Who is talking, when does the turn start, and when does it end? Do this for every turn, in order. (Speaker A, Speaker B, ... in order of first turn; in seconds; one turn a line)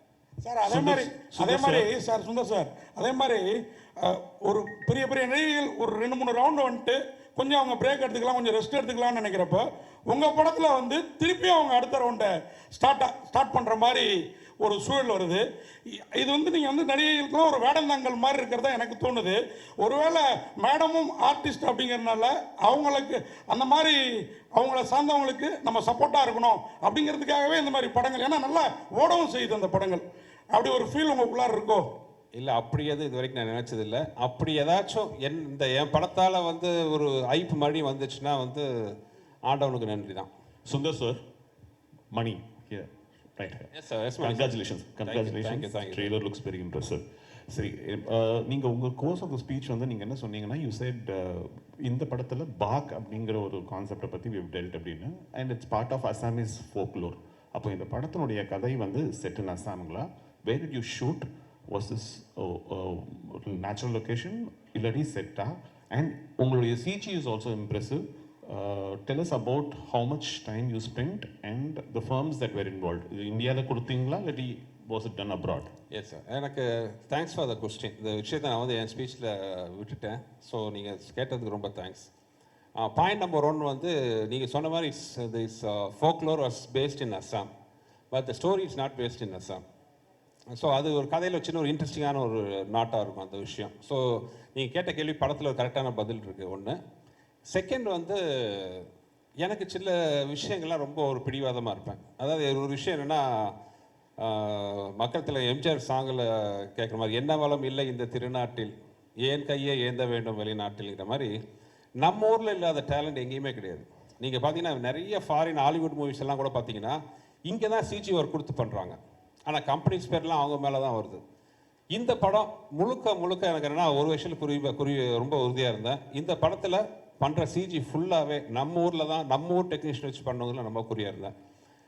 Speaker A: 0.4-14.1
Speaker B: 0.7-1.5
Speaker A: 14.6-23.9
Speaker A: 24.5-31.9
Speaker C: 32.4-38.7
Speaker C: 39.5-40.3
Speaker B: 40.6-41.2
Speaker B: 42.1-75.7
Speaker C: 43.7-46.1
Speaker C: 75.9-82.1
Speaker C: 82.8-87.5
Speaker C: 88.1-89.6
Speaker C: 90.5-94.0
Speaker C: 94.5-96.8
Speaker C: 97.5-98.9
Speaker C: 99.4-103.5
Speaker C: 104.2-108.7
Speaker C: 109.2-111.3
Speaker C: 112.0-121.2
Speaker C: 121.9-131.3